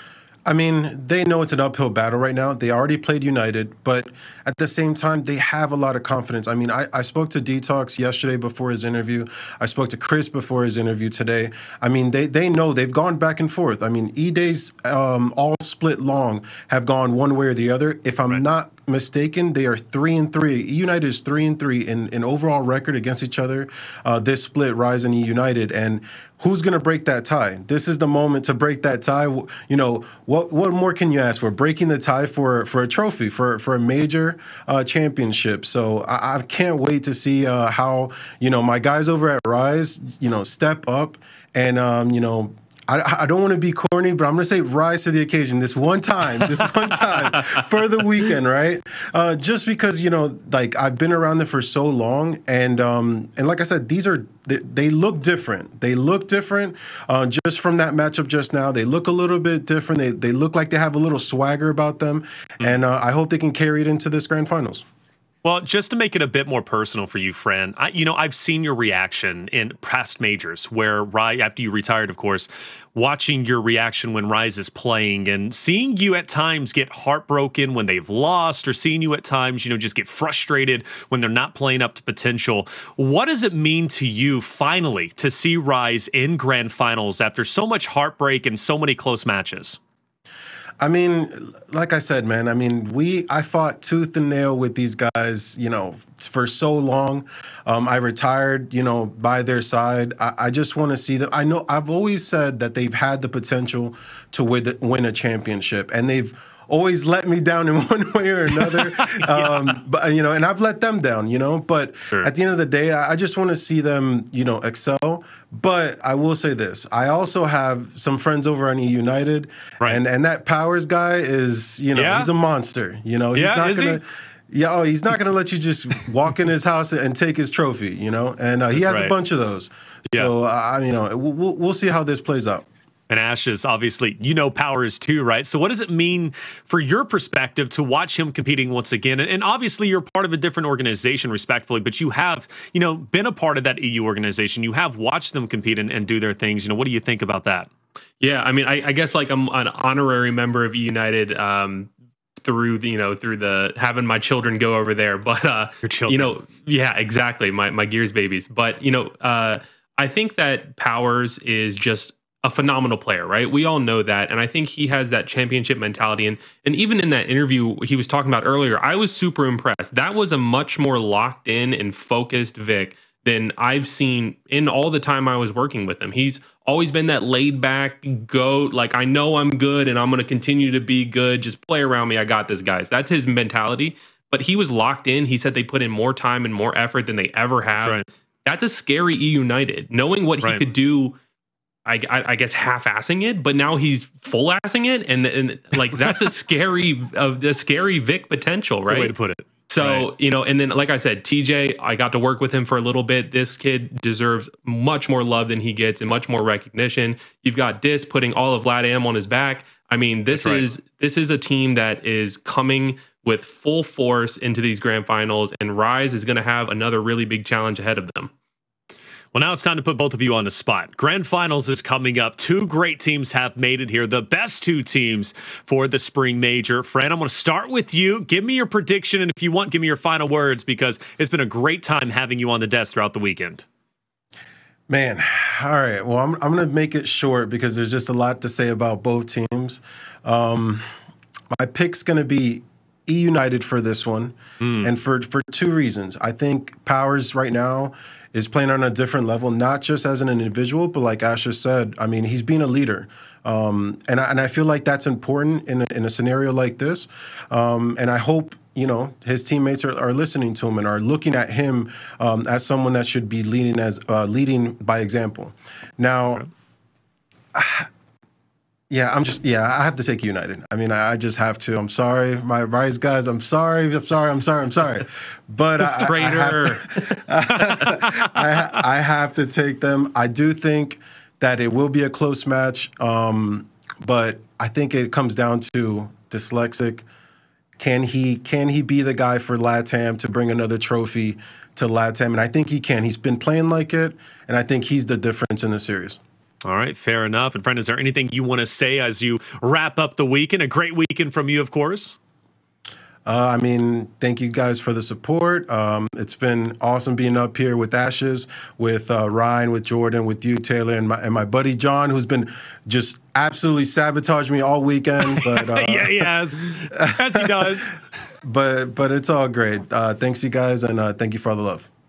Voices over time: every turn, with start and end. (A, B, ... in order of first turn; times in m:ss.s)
0:00.5-1:04.8 A
0:47.2-0:47.6 B
1:05.4-1:29.8 C
1:30.8-2:12.6 A
1:48.6-1:49.8 C
2:01.9-2:02.3 C
2:03.3-2:04.0 C
2:08.7-2:09.1 C
2:13.1-2:27.7 C
2:28.2-3:11.2 B
2:35.8-2:36.4 C
3:07.8-3:08.1 C
3:10.4-3:10.7 C
3:11.8-3:19.1 B
3:16.0-3:16.3 C
3:18.9-3:20.1 C
3:19.7-3:38.3 B
3:30.3-3:30.7 C
3:39.3-3:53.6 C
3:54.9-4:00.8 A
4:01.5-4:26.4 A
4:04.6-4:04.9 C
4:27.5-4:27.9 A
4:28.9-4:47.0 A
4:35.9-4:38.0 B
4:47.8-4:56.2 A
4:56.6-5:02.2 C
5:03.2-5:16.3 A
5:15.2-5:17.9 C
5:16.9-5:17.8 A
5:18.4-5:21.9 A